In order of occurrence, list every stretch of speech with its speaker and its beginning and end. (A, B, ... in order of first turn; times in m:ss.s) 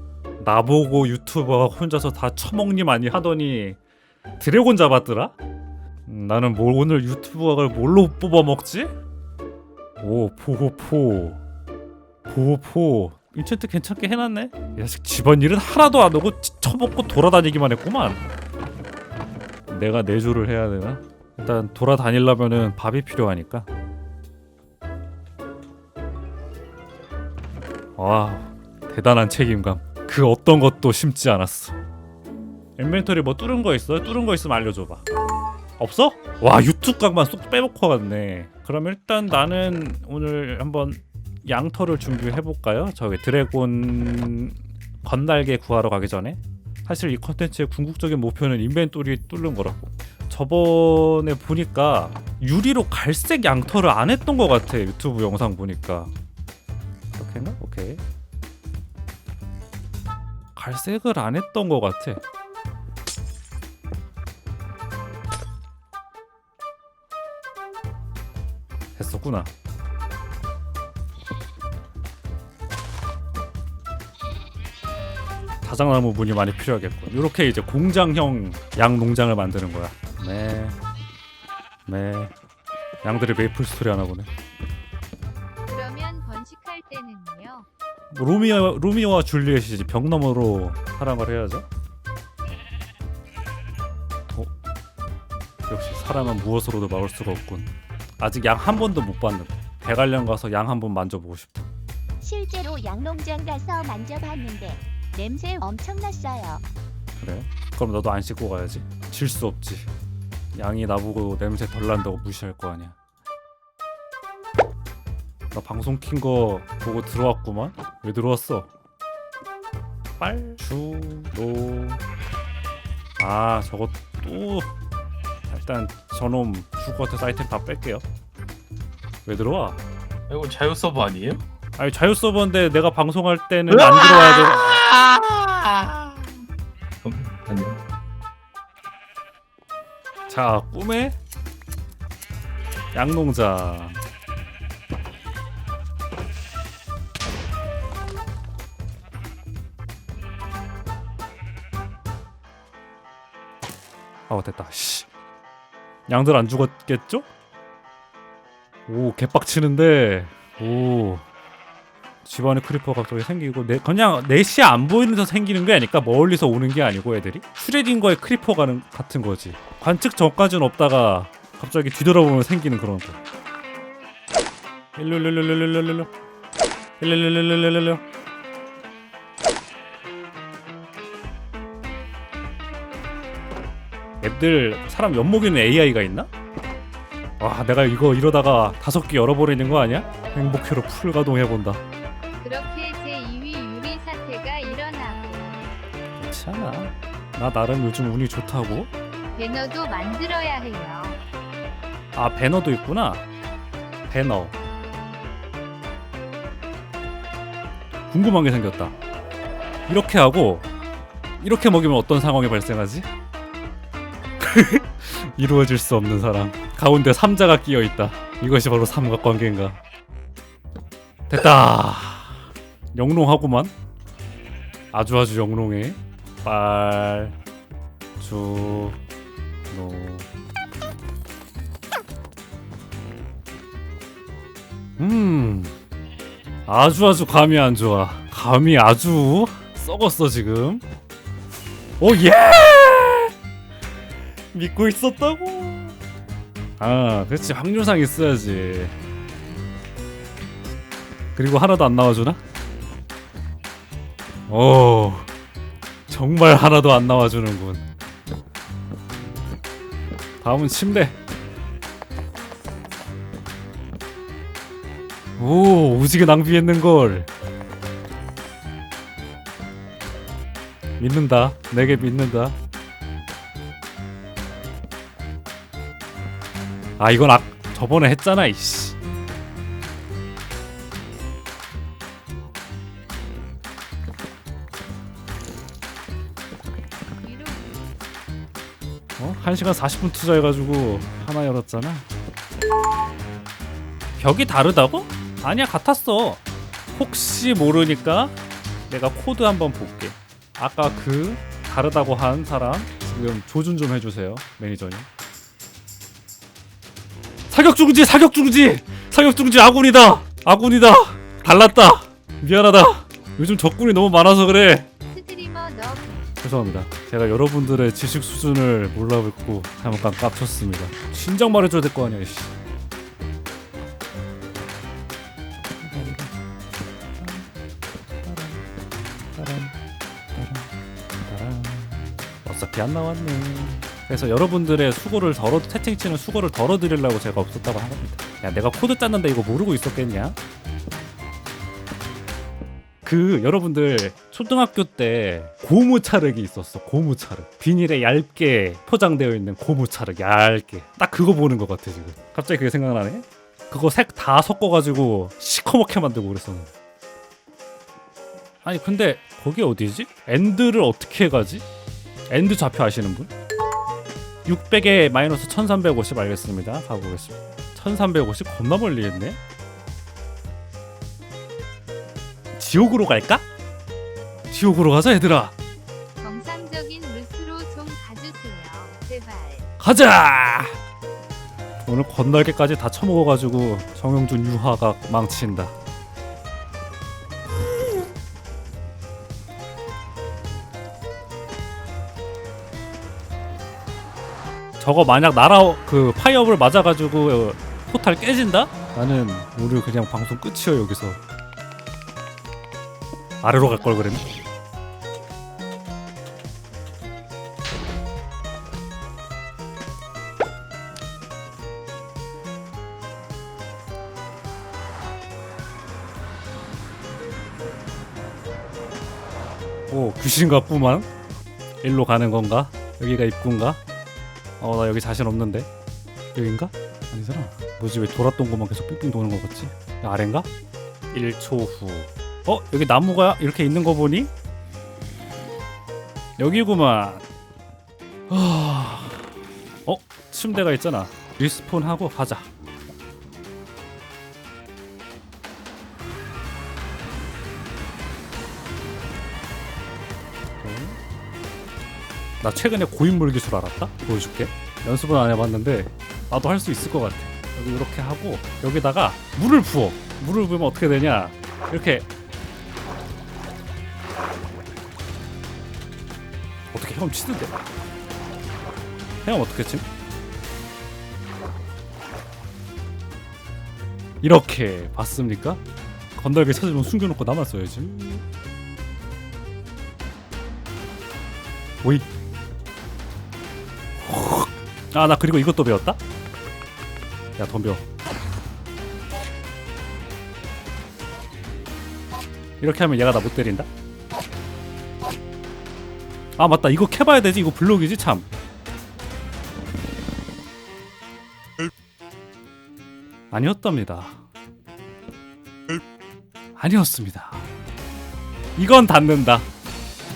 0:00.4-0:03.8 A
0:04.4-0:05.4 A
0:06.1-0:08.9 A
0:10.0-0:11.4 A
0:12.3-0:18.2 A
0:19.7-0:23.7 A
0:28.0-0:31.8 A
0:32.8-0:35.0 A
0:35.8-0:56.1 A
0:57.1-0:58.0 A
1:00.6-1:02.2 A
1:09.0-1:09.5 A
1:15.6-1:20.8 A
1:21.9-1:22.3 A
1:23.0-1:24.3 A
1:25.7-1:27.7 B
1:28.1-1:31.7 A
1:35.7-1:41.7 A
1:42.2-1:46.6 C
1:47.2-1:49.9 A
1:50.5-1:52.9 A
1:55.5-1:58.7 A
2:00.2-2:02.0 A
2:03.2-2:04.7 A
2:05.5-2:08.0 A
2:09.2-2:09.8 A
2:10.3-2:11.4 D
2:11.8-2:14.9 A
2:14.5-2:16.2 D
2:17.0-2:17.8 D
2:20.3-2:21.2 A
2:22.9-2:24.0 A
2:34.3-2:35.1 A
2:36.1-2:37.3 A
2:38.9-2:41.2 A
2:42.2-2:53.2 A
2:55.0-2:56.1 A
2:57.0-2:58.0 A
3:04.2-3:06.3 A
3:07.4-3:11.8 A
3:12.4-3:15.7 B
3:16.2-3:18.9 A
3:19.3-3:21.2 B
3:22.1-3:23.2 A
3:24.1-3:24.5 A
3:28.1-3:28.9 A
3:29.9-3:30.7 A
3:31.4-3:33.1 A
3:34.4-3:39.8 A
3:41.3-3:43.7 A
3:44.9-3:47.4 A
3:48.2-3:49.0 A
3:49.7-3:50.3 A
3:55.0-3:55.7 A
3:56.7-4:00.8 A
4:02.0-4:03.3 A
4:04.5-4:06.0 A
4:06.8-4:08.9 A
4:11.4-4:12.4 A
4:14.5-4:15.3 A
4:16.1-4:17.8 A
4:20.4-4:21.2 A
4:25.4-4:27.3 A
4:31.0-4:32.6 A
4:37.0-4:39.0 A
4:47.2-4:47.9 B
4:49.2-4:52.0 A
4:54.2-4:56.4 A
4:56.9-4:58.3 A
4:58.9-5:05.1 A
5:07.5-5:14.9 A
5:15.1-5:16.3 B
5:16.4-5:22.5 A
5:25.8-5:26.3 A
5:27.2-5:27.5 A
5:28.2-5:28.6 A
5:29.3-5:29.7 A
5:30.3-5:40.4 A
5:43.0-5:56.7 A
5:58.6-6:01.6 A
6:02.3-6:03.3 A
6:04.4-6:09.4 A
6:12.5-6:13.4 A
6:14.5-6:15.5 A
6:16.2-6:19.7 B
6:19.8-6:20.8 A
6:21.9-6:25.7 A
6:34.8-6:41.2 A
6:43.4-6:44.3 A
6:59.9-7:01.1 A
7:01.8-7:03.8 A
7:04.6-7:05.7 A
7:06.3-7:10.5 A
7:11.1-7:14.3 A
7:16.4-7:17.2 A
7:18.3-7:19.3 A
7:19.8-7:22.5 A
7:30.6-7:31.0 A
7:32.4-7:42.1 A
7:46.7-7:47.6 A
7:49.2-7:49.8 A
7:54.2-7:55.6 A
7:56.1-7:58.2 A
8:01.8-8:02.1 A
8:04.0-8:06.0 A
8:07.4-8:07.8 A
8:12.6-8:13.7 A
8:16.4-8:18.3 A
8:23.3-8:24.2 A
8:26.6-8:27.5 A
8:28.6-8:29.5 A